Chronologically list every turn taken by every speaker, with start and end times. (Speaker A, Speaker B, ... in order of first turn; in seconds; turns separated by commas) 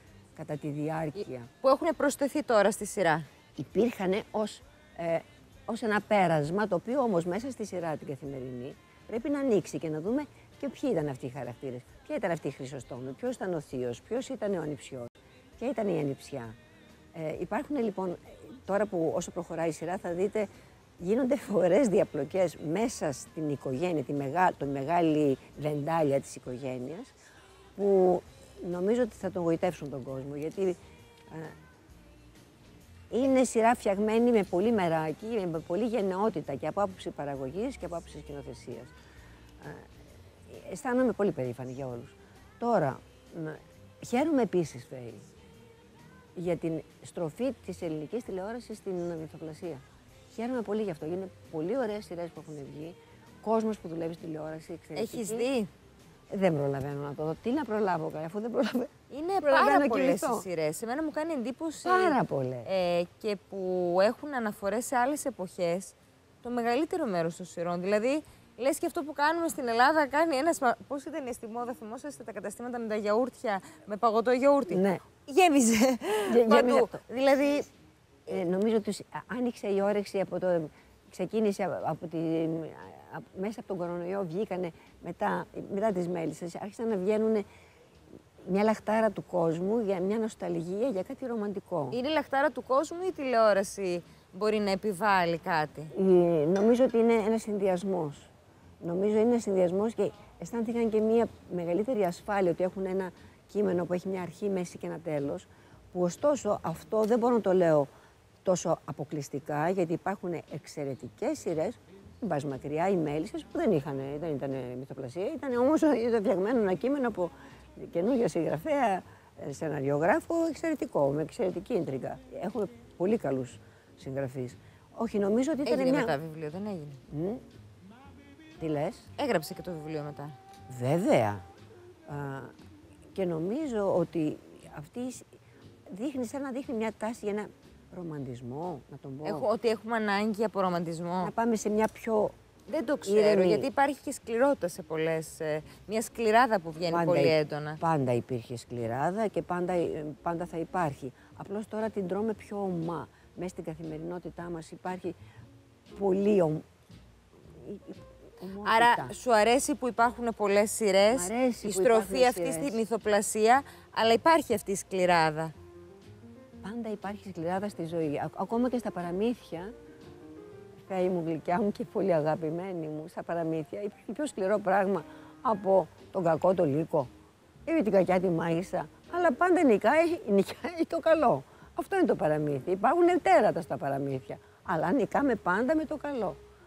Speaker A: 0.4-1.5, Speaker B: 1.2-3.3, Speaker A: 3.6-16.6, Speaker A: 17.1-27.1, Speaker A: 27.8-30.8, Speaker A: 31.3-31.6, Speaker A: 33.1-39.0, Speaker A: 39.6-39.9, Speaker A: 40.5-45.2, Speaker A: 46.4-55.5, Speaker B: 55.0-55.7, Speaker A: 56.3-60.5, Speaker B: 59.1-77.7, Speaker A: 61.8-62.7, Speaker A: 74.7-75.0, Speaker A: 76.3-77.0, Speaker A: 78.3-87.5, Speaker A: 88.5-92.0, Speaker B: 91.9-95.9, Speaker A: 95.9-107.9, Speaker A: 108.5-126.2, Speaker B: 125.6-127.0, Speaker A: 127.1-127.4, Speaker A: 128.6-129.1, Speaker B: 129.2-130.4, Speaker A: 130.7-131.4, Speaker A: 132.1-132.5, Speaker A: 133.1-135.3, Speaker A: 135.9-139.5, Speaker B: 139.2-141.3, Speaker A: 141.2-142.3, Speaker B: 142.7-147.8, Speaker A: 143.1-143.7, Speaker A: 146.9-155.2, Speaker A: 155.9-156.7, Speaker A: 157.6-159.2, Speaker B: 158.6-165.5, Speaker A: 161.1-162.8, Speaker A: 166.6-169.7, Speaker A: 170.9-177.1, Speaker A: 177.7-186.4